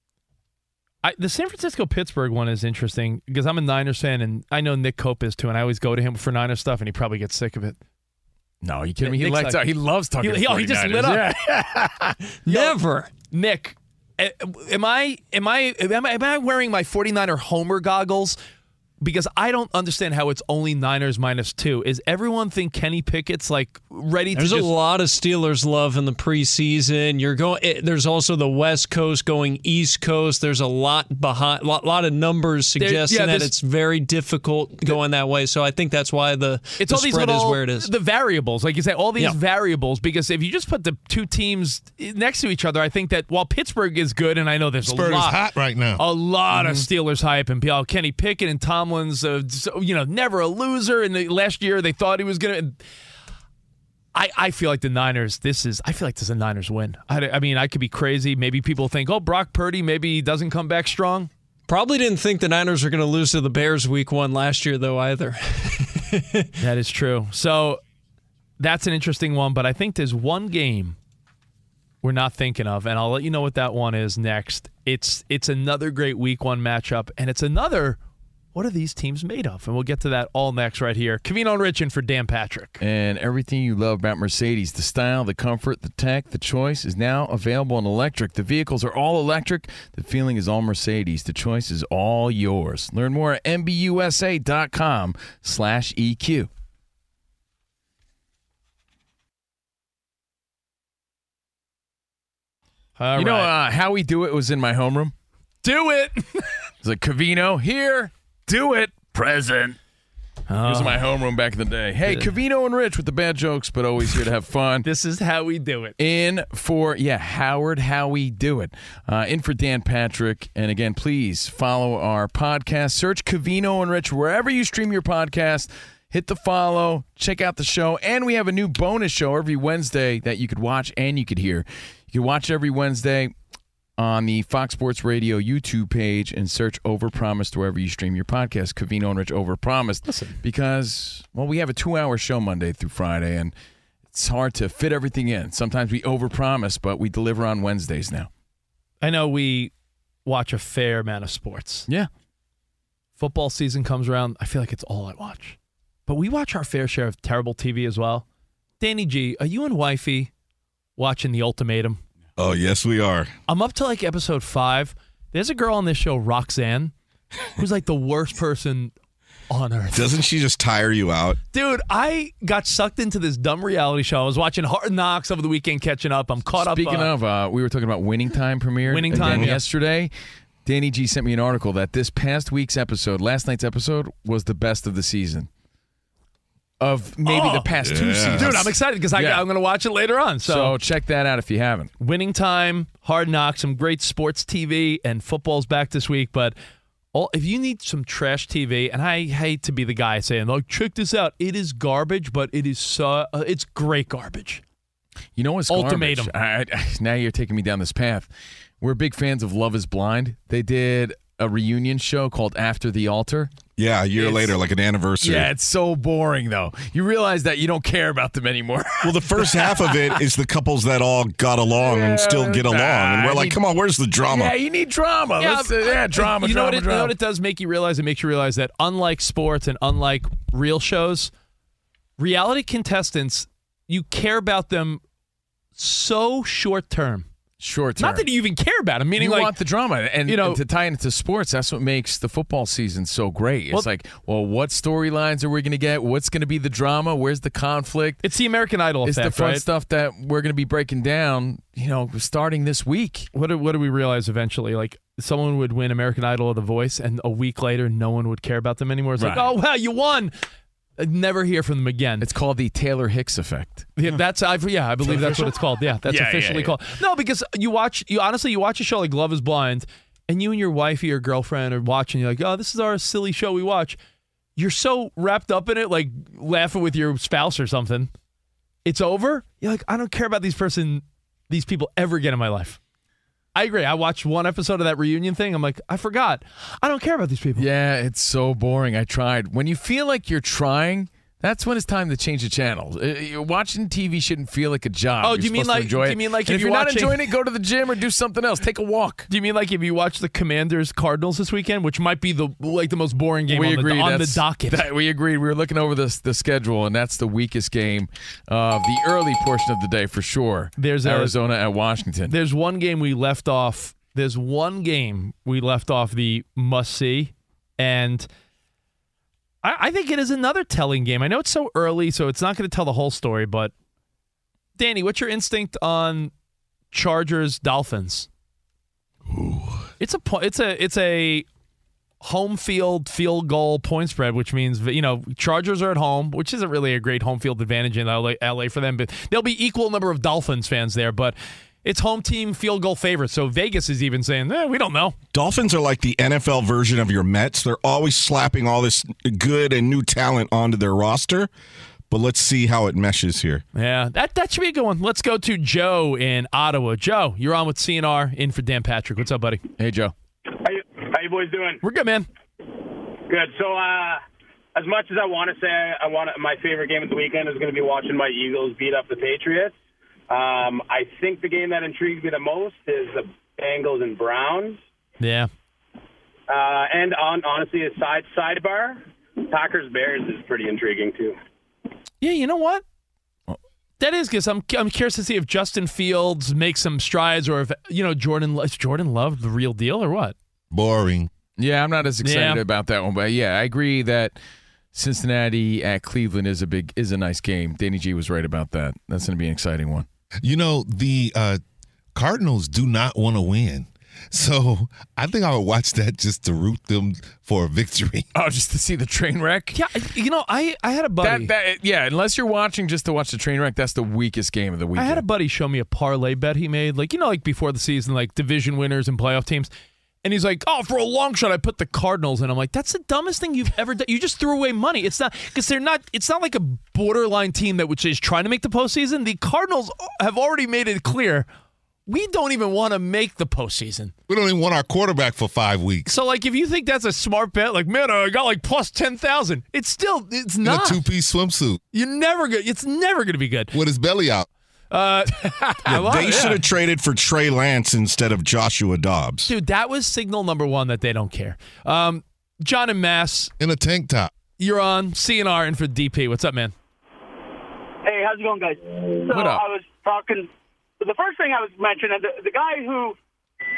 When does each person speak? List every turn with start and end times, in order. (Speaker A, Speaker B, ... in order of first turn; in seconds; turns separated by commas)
Speaker A: 1.0-7.8, Speaker B: 8.6-12.2, Speaker A: 9.0-9.6, Speaker A: 10.2-11.3, Speaker C: 12.4-13.1, Speaker A: 12.5-18.4, Speaker A: 19.0-24.7, Speaker C: 24.3-37.9, Speaker A: 32.8-33.5, Speaker A: 36.8-45.4, Speaker D: 44.8-46.0, Speaker A: 46.0-52.8, Speaker B: 46.5-46.8, Speaker A: 54.1-61.3, Speaker C: 61.7-66.5, Speaker A: 66.6-67.8, Speaker A: 68.6-71.0, Speaker A: 72.0-78.0, Speaker A: 78.5-82.8, Speaker B: 82.8-96.5, Speaker A: 103.0-103.5, Speaker B: 103.2-105.1, Speaker A: 105.6-106.5, Speaker B: 106.8-109.8, Speaker A: 110.5-111.1, Speaker B: 110.6-114.9, Speaker A: 114.8-116.0, Speaker B: 116.0-133.3, Speaker B: 134.0-143.5, Speaker A: 140.1-140.4, Speaker B: 144.1-148.3, Speaker A: 149.0-149.7, Speaker A: 150.2-151.9, Speaker A: 153.2-155.6, Speaker A: 156.1-158.2, Speaker A: 158.8-160.3, Speaker A: 161.0-162.0, Speaker E: 162.4-163.3, Speaker A: 163.5-166.9, Speaker A: 167.6-168.9, Speaker A: 169.5-170.1, Speaker E: 169.9-171.4, Speaker A: 171.5-177.1, Speaker B: 176.5-180.1, Speaker A: 178.9-179.6, Speaker E: 179.1-179.5, Speaker B: 180.6-185.5, Speaker B: 186.8-189.4, Speaker A: 187.2-190.7, Speaker E: 187.9-188.7, Speaker B: 190.4-191.9, Speaker A: 192.0-196.6, Speaker A: 197.1-204.6, Speaker B: 205.4-208.3, Speaker A: 205.7-206.3, Speaker B: 208.8-213.5, Speaker E: 213.8-215.5, Speaker B: 214.2-214.5, Speaker B: 215.2-220.2, Speaker E: 219.0-224.5, Speaker B: 221.8-223.6, Speaker B: 224.2-227.1, Speaker A: 225.4-231.3, Speaker A: 232.2-235.0, Speaker A: 235.8-237.3, Speaker B: 237.6-238.3, Speaker A: 238.0-239.6, Speaker B: 239.2-248.2, Speaker A: 240.2-240.6, Speaker A: 248.2-249.6, Speaker B: 249.0-253.3, Speaker A: 253.3-260.3, Speaker B: 259.2-259.5, Speaker A: 261.0-262.3, Speaker B: 262.2-263.9, Speaker A: 264.0-274.0, Speaker B: 265.0-266.8, Speaker A: 274.6-278.1, Speaker A: 278.8-282.8, Speaker A: 283.6-287.7, Speaker B: 287.6-299.3, Speaker A: 295.2-297.3, Speaker A: 299.3-304.8, Speaker B: 303.5-312.3, Speaker A: 310.8-311.4, Speaker A: 312.3-318.3, Speaker A: 319.6-323.7, Speaker A: 324.8-326.3, Speaker A: 326.9-328.3, Speaker A: 330.0-331.4, Speaker A: 332.2-345.1, Speaker E: 345.3-351.5, Speaker E: 352.1-353.6, Speaker A: 353.7-359.6, Speaker B: 359.8-360.1, Speaker F: 360.5-361.8, Speaker A: 361.8-362.3, Speaker F: 363.3-364.2, Speaker F: 364.7-369.7, Speaker F: 370.3-374.8, Speaker A: 375.2-375.5, Speaker F: 376.5-381.4, Speaker A: 382.2-382.8, Speaker A: 384.0-390.3, Speaker D: 390.7-391.3, Speaker B: 391.6-394.4, Speaker A: 392.2-392.6, Speaker B: 394.9-400.1, Speaker D: 400.4-401.6, Speaker D: 402.1-408.2, Speaker B: 408.3-409.8, Speaker A: 409.7-411.5, Speaker B: 411.2-415.2, Speaker A: 414.9-419.7, Speaker A: 420.2-431.5, Speaker A: 432.1-434.1, Speaker D: 434.3-436.1, Speaker A: 436.1-441.0, Speaker D: 440.6-441.8, Speaker A: 441.9-443.7, Speaker D: 443.7-444.5, Speaker A: 444.9-446.6, Speaker E: 445.9-449.5, Speaker A: 449.5-453.5, Speaker D: 453.6-454.3, Speaker A: 454.6-456.7, Speaker G: 458.0-463.1, Speaker B: 459.3-459.6